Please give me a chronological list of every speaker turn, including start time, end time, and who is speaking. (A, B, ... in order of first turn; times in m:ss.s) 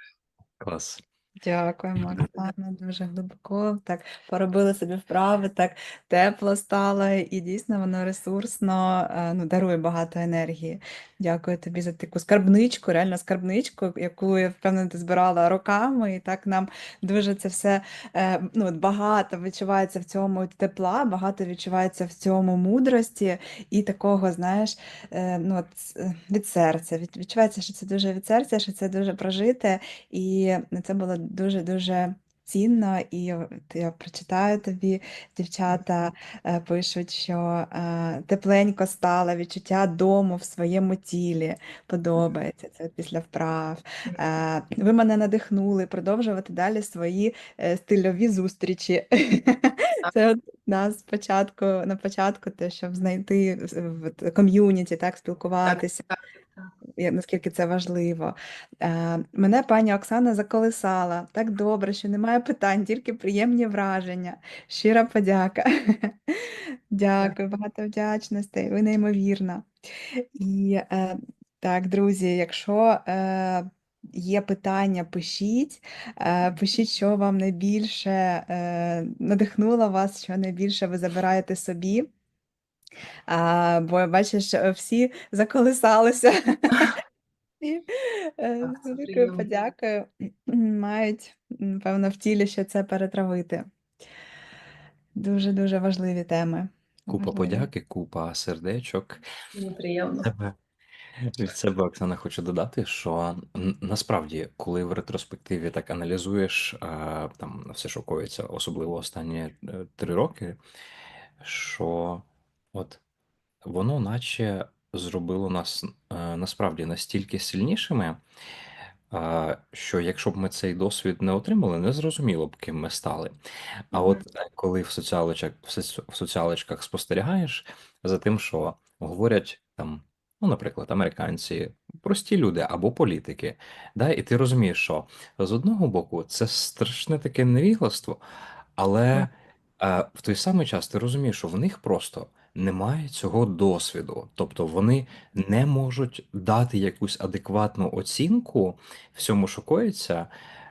0:00.6-0:01.0 A
0:01.4-0:56.0 B
0:55.7-0:56.2 C
0:57.0-1:22.1 B
1:23.3-1:26.9 B
1:27.6-1:33.7 B
1:28.6-1:29.5 C
1:35.2-1:37.7 B
1:37.1-1:39.2 A
1:39.5-1:40.3 C
1:40.2-1:40.6 A
1:41.2-1:50.6 A
1:51.4-1:53.0 A
1:53.6-1:58.2 A
1:59.1-2:03.3 A
2:03.9-2:18.2 A
2:18.8-2:30.3 A